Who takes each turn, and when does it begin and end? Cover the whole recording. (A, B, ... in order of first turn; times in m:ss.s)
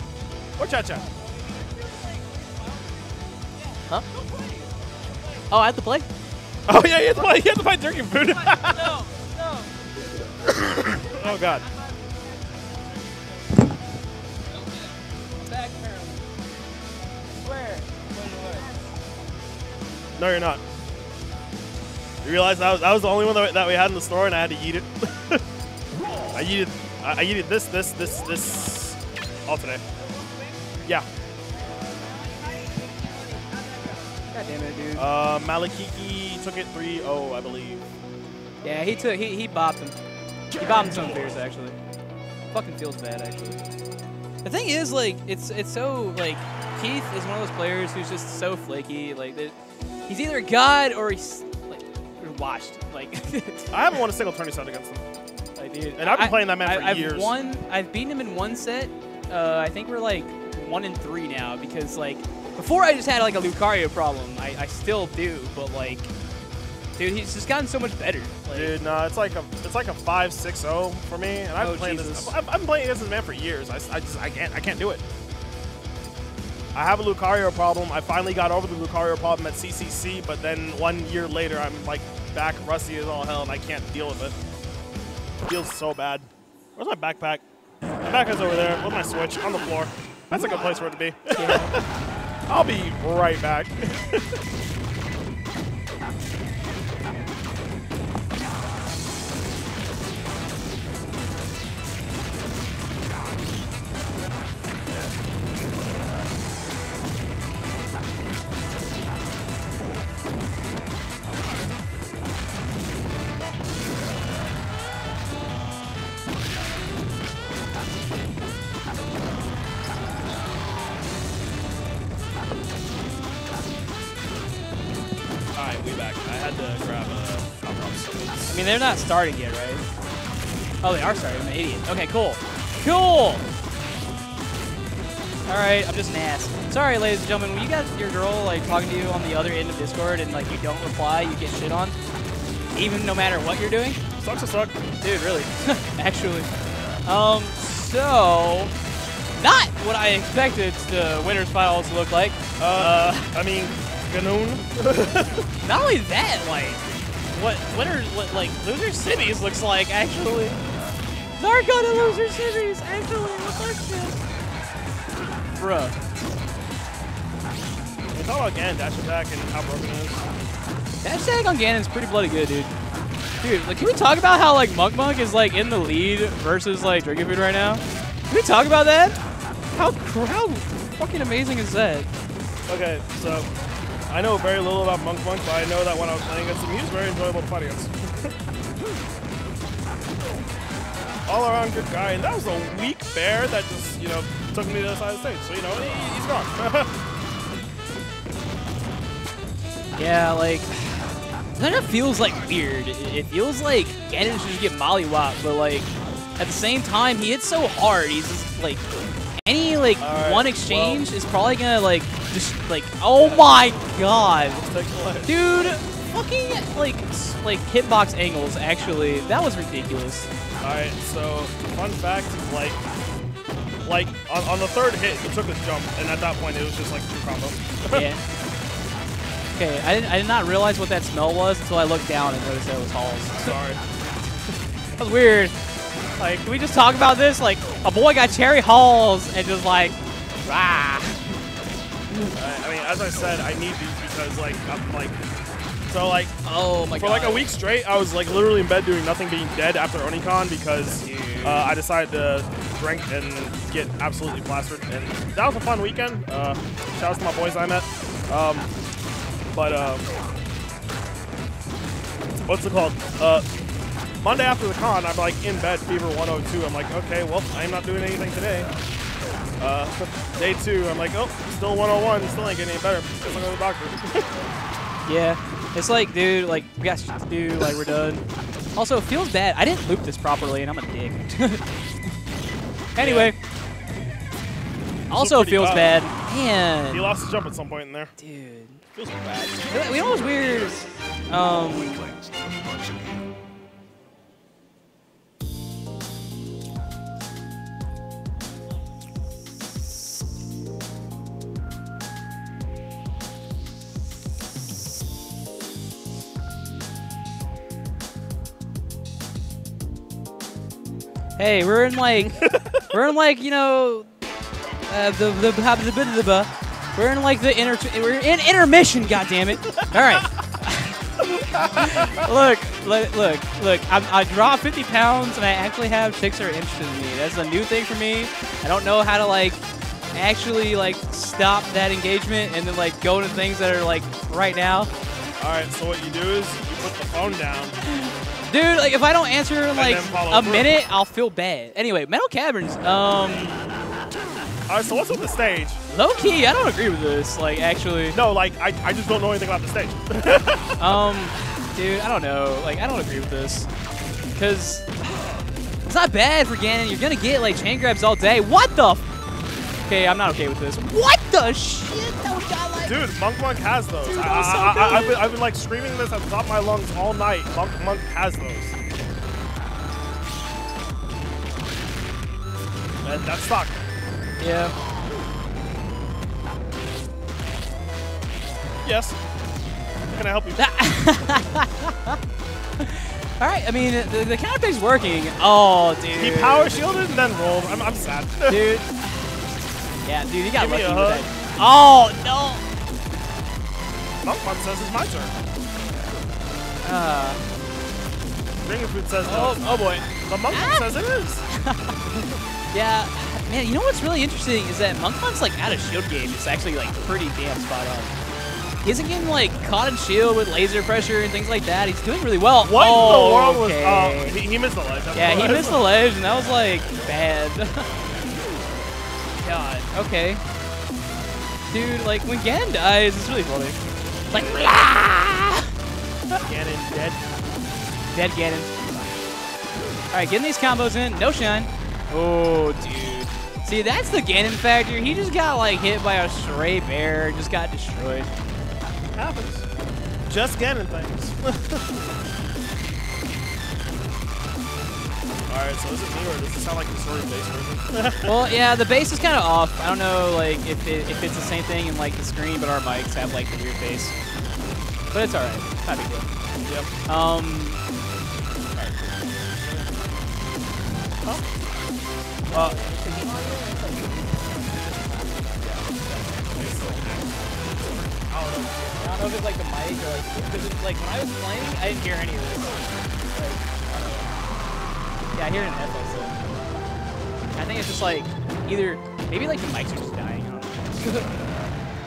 0:00.6-0:01.1 A
0:05.5-0:06.1 B
0:06.7-0:09.0 A
0:10.5-0:11.7 A
0:15.4-0:16.2 B
0:17.4-0:18.6 B
0:20.2-0:20.6 A
0:22.2-0:25.4 A
0:26.3-0:29.8 A
0:34.3-0:35.1 B
0:34.9-0:37.9 A
0:38.6-0:40.0 B
0:40.6-0:41.8 B
0:42.5-0:43.6 B
0:44.4-0:49.5 B
0:50.1-0:54.0 B
0:53.7-0:55.0 A
0:55.6-1:06.1 B
0:56.0-0:57.4 A
1:07.0-1:08.7 B
1:08.5-1:15.0 A
1:11.6-1:12.3 B
1:16.7-1:24.4 A
1:25.4-1:27.4 A
1:28.0-1:31.8 A
1:31.3-1:31.7 B
1:32.5-1:34.3 A
2:05.5-2:08.6 A
2:08.5-2:09.8 B
2:10.8-2:13.4 B
2:15.5-2:21.9 B
2:22.7-2:24.0 B
2:24.2-2:24.8 A
2:25.0-2:26.5 B
2:27.0-2:28.7 B
2:29.4-2:33.3 B
2:32.6-2:35.5 A
2:35.6-2:40.6 B
2:41.4-2:44.2 B
2:45.6-2:46.0 B
2:48.1-2:50.2 A
2:51.0-2:52.7 B
2:53.4-2:59.2 B
2:59.7-3:02.1 B
3:02.7-3:03.5 A
3:04.1-3:08.3 A
3:11.3-3:16.9 A
3:20.0-3:28.9 B
3:29.4-3:34.6 B
3:30.0-3:31.1 A
3:33.1-3:33.7 A
3:34.4-3:35.4 A
3:35.2-3:40.3 B
3:40.6-3:42.8 A
3:43.8-3:48.0 A
3:47.9-3:48.2 B
3:49.6-3:53.6 B
3:53.4-3:53.8 A
3:55.0-3:55.5 B
3:56.2-4:01.4 B
4:02.3-4:05.2 A
4:05.9-4:06.3 A
4:06.4-4:07.5 B
4:06.9-4:18.7 A
4:11.0-4:11.7 B
4:19.5-4:20.1 A
4:22.5-4:23.4 A
4:24.2-4:28.7 A
4:29.6-4:34.3 A
4:35.0-4:38.2 B
4:38.7-4:41.6 B
4:43.0-4:43.4 B
4:43.0-4:43.3 A
4:45.1-4:47.1 B
4:45.1-4:46.1 A
4:46.9-4:48.1 A
4:48.2-4:48.8 B
4:48.9-4:50.1 A
4:49.7-4:52.1 B
5:11.4-5:14.1 B
5:12.4-5:12.9 A
5:14.9-5:29.6 B
5:21.5-5:22.1 A
5:30.1-5:34.9 B
5:35.4-5:37.8 A
5:37.8-5:43.6 B
5:39.7-5:40.8 A
5:44.7-5:45.8 A
5:45.9-5:48.2 B
5:48.1-5:50.9 A
5:50.8-5:53.7 B
5:54.3-5:54.9 B
5:55.9-5:59.0 B
5:59.9-6:02.9 B
6:02.8-6:08.7 A
6:04.0-6:05.3 B
6:13.0-6:13.8 A
6:14.4-6:14.7 B
6:18.8-6:19.2 A
6:20.1-6:20.7 A
6:20.6-6:22.2 B
6:22.8-6:27.0 B
6:26.1-6:28.7 A
6:28.5-6:29.4 B
6:30.0-6:32.6 B
6:30.5-6:31.3 A
6:34.2-6:35.3 A
6:36.8-6:37.4 B
6:38.6-6:41.4 A
6:39.2-6:42.0 B
6:42.7-6:48.1 B
6:48.8-6:54.4 B
6:52.6-6:55.8 A
6:55.1-6:57.9 B
6:59.4-7:00.4 B
7:01.7-7:03.8 B
7:04.3-7:05.7 B
7:04.3-7:04.6 A
7:06.4-7:07.3 A
7:08.1-7:08.7 B
7:10.1-7:18.3 B
7:19.1-7:19.6 A
7:20.3-7:21.8 A
7:25.5-7:28.3 A
7:28.2-7:34.1 B
7:35.1-7:36.3 B
7:36.6-7:36.9 A
7:37.1-7:37.8 B
7:38.7-7:39.8 A
7:42.5-7:47.0 B
7:42.5-7:42.8 A
7:46.5-7:49.2 A
7:49.0-7:54.4 B
7:55.3-7:56.4 B
7:57.5-8:01.3 B